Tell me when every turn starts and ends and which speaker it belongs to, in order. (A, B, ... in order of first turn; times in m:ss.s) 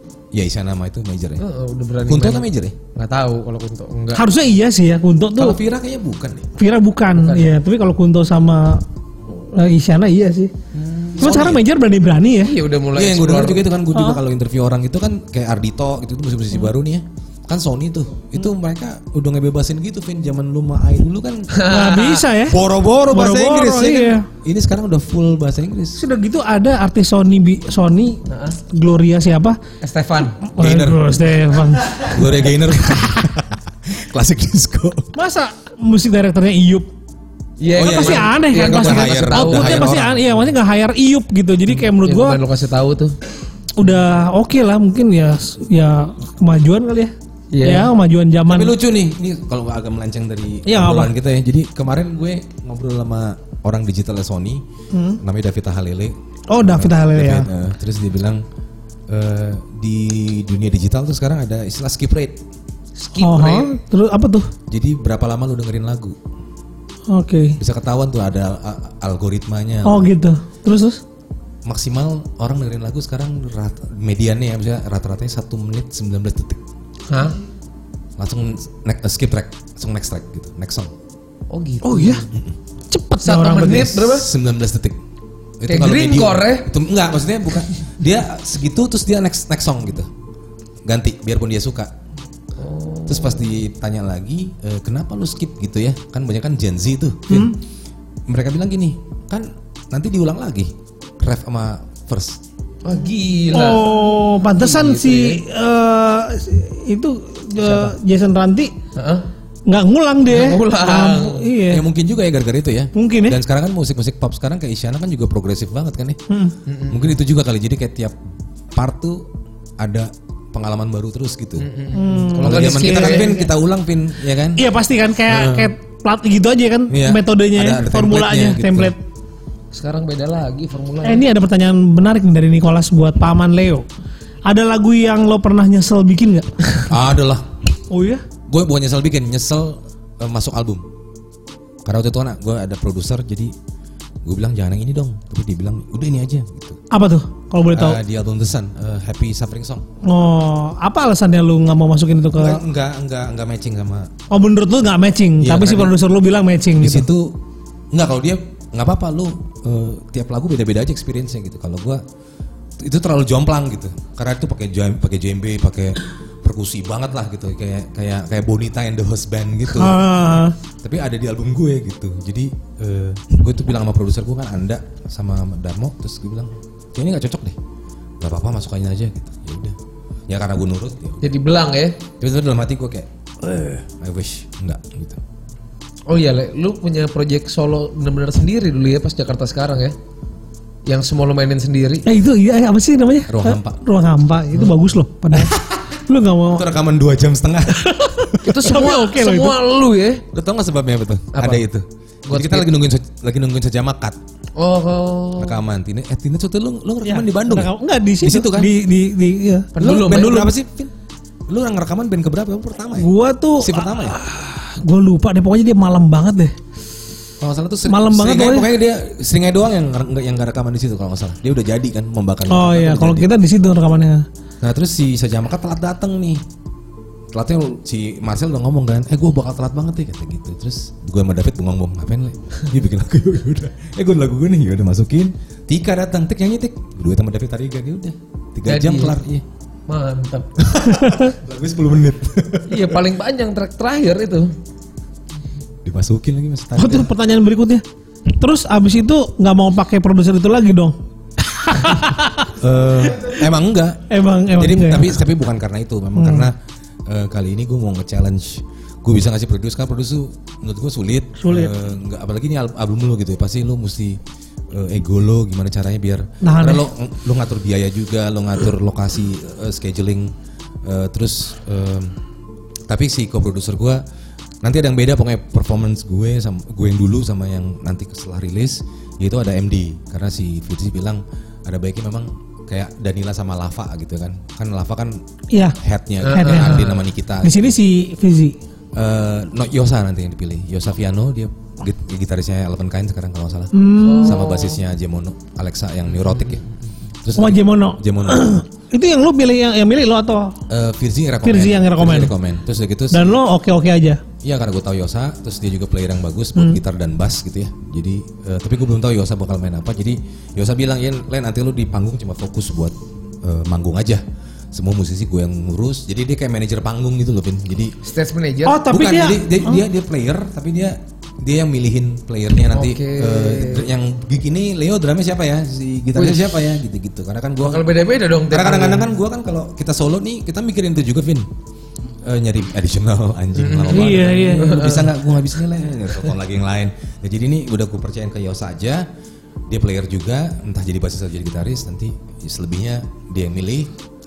0:00.3-0:01.4 A
0:01.4-0:04.3 B
0:02.0-0:02.8 A
0:04.1-0:05.6 C
0:05.4-0:06.5 A
0:06.6-0:10.5 C
0:07.1-0:07.5 B
0:10.7-0:11.3 B
0:11.2-0:11.6 A
0:11.2-0:12.5 C
0:12.4-0:13.6 B
0:12.9-0:21.5 A
0:13.9-0:14.2 C
0:21.5-0:22.3 B
0:21.6-0:24.2 C
0:22.4-0:26.0 A
0:26.0-0:29.6 C
0:28.3-0:28.6 B
0:29.8-0:30.4 B
0:30.5-0:32.2 C
0:30.6-0:31.1 A
0:32.0-0:35.1 A
0:35.2-0:36.9 C
0:37.6-0:40.0 B
0:37.8-0:40.2 A
0:37.8-0:42.4 C
0:41.8-0:43.1 B
0:43.8-0:48.7 C
0:47.5-0:47.9 B
0:48.5-0:54.6 A
0:50.6-0:51.1 C
0:54.9-0:55.2 C
0:55.2-0:58.4 A
0:56.5-0:57.5 C
0:59.1-1:02.4 A
1:03.0-1:03.7 B
1:03.1-1:04.5 C
1:04.7-1:06.2 A
1:07.1-1:07.6 C
1:07.6-1:10.1 A
1:09.8-1:11.0 C
1:11.6-1:16.6 A
1:17.1-1:17.4 B
1:18.2-1:20.9 A
1:21.5-1:22.3 B
1:21.8-1:22.2 C
1:22.9-1:24.0 C
1:23.2-1:24.3 B
1:24.0-1:25.0 A
1:25.6-1:30.1 A
1:25.7-1:26.7 B
1:30.8-1:31.9 A
1:32.6-1:33.5 B
1:33.1-1:37.6 A
1:37.3-1:37.6 C
1:38.3-1:42.4 A
1:42.8-1:45.4 B
1:43.5-1:48.7 C
1:47.6-1:47.9 B
1:49.0-1:49.2 B
1:49.7-1:51.8 C
1:50.3-1:51.5 B
1:51.6-1:56.2 A
1:52.9-1:53.4 C
1:56.3-1:56.5 C
1:56.6-1:57.1 B
1:56.9-1:58.2 A
1:58.7-1:59.3 A
1:59.8-2:01.7 A
2:01.6-2:03.4 B
2:01.9-2:03.5 C
2:02.4-2:04.6 A
2:04.6-2:09.0 C
2:05.3-2:05.7 A
2:06.9-2:08.9 A
2:09.7-2:11.2 B
2:11.0-2:13.8 C
2:14.4-2:16.9 C
2:16.9-2:17.5 A
2:17.9-2:18.2 C
2:18.5-2:20.8 A
2:21.8-2:23.5 A
2:24.2-2:26.8 A
2:26.9-2:28.0 C
2:27.7-2:29.8 A
2:30.0-2:32.6 C
2:32.3-2:34.1 A
2:34.3-2:37.1 C
2:35.4-2:36.0 A
2:36.8-2:37.4 A
2:37.9-2:42.0 A
2:42.8-2:50.0 A
2:49.7-2:50.6 C
2:50.8-2:57.6 A
2:58.2-2:59.8 A
3:00.3-3:01.3 A
3:01.2-3:02.0 B
3:02.2-3:05.2 A
3:06.1-3:10.0 B
3:10.8-3:12.1 B
3:12.0-3:15.6 C
3:13.3-3:13.8 A
3:15.3-3:15.8 A
3:16.1-3:16.7 C
3:16.5-3:18.4 A
3:17.8-3:19.6 C
3:18.4-3:20.2 B
3:20.3-3:24.2 A
3:21.3-3:21.6 B
3:22.3-3:22.7 B
3:24.6-3:25.6 B
3:25.4-3:28.7 A
3:27.0-3:29.7 C
3:29.7-3:30.5 B
3:29.8-3:30.9 A
3:31.5-3:34.2 A
3:33.0-3:36.5 C
3:37.4-3:43.3 A
3:37.9-3:38.7 C
3:42.5-3:44.2 C
3:44.6-3:46.4 A
3:47.3-3:59.4 A
3:58.6-3:59.3 B
3:59.9-4:00.5 B
4:00.6-4:03.0 A
4:00.9-4:01.3 C
4:02.7-4:04.5 B
4:05.8-4:07.1 A
4:06.8-4:12.5 C
4:12.6-4:24.2 A
4:14.1-4:15.2 C
4:16.2-4:16.5 C
4:21.4-4:21.7 C
4:24.7-4:30.3 A
4:26.4-4:26.8 C
4:30.8-4:32.2 A
4:32.9-4:34.0 A
4:34.6-4:45.2 A
4:45.5-4:45.8 C
4:45.8-4:47.7 A
4:46.2-4:47.0 B
4:46.3-4:48.6 C
4:48.9-4:56.6 A
4:53.7-4:54.4 C
4:54.0-4:54.8 B
4:56.2-4:56.7 B
4:57.2-4:58.6 A
4:57.4-5:00.6 C
5:00.7-5:03.4 A
5:01.4-5:02.3 C
5:03.1-5:04.2 C
5:04.4-5:17.9 A
5:18.0-5:18.8 B
5:18.7-5:19.8 C
5:18.8-5:28.0 A
5:22.7-5:23.9 B
5:26.2-5:26.5 B
5:27.6-5:29.1 B
5:28.5-5:31.5 A
5:32.2-5:39.0 A
5:33.6-5:35.2 B
5:33.9-5:34.8 C
5:39.7-5:43.9 A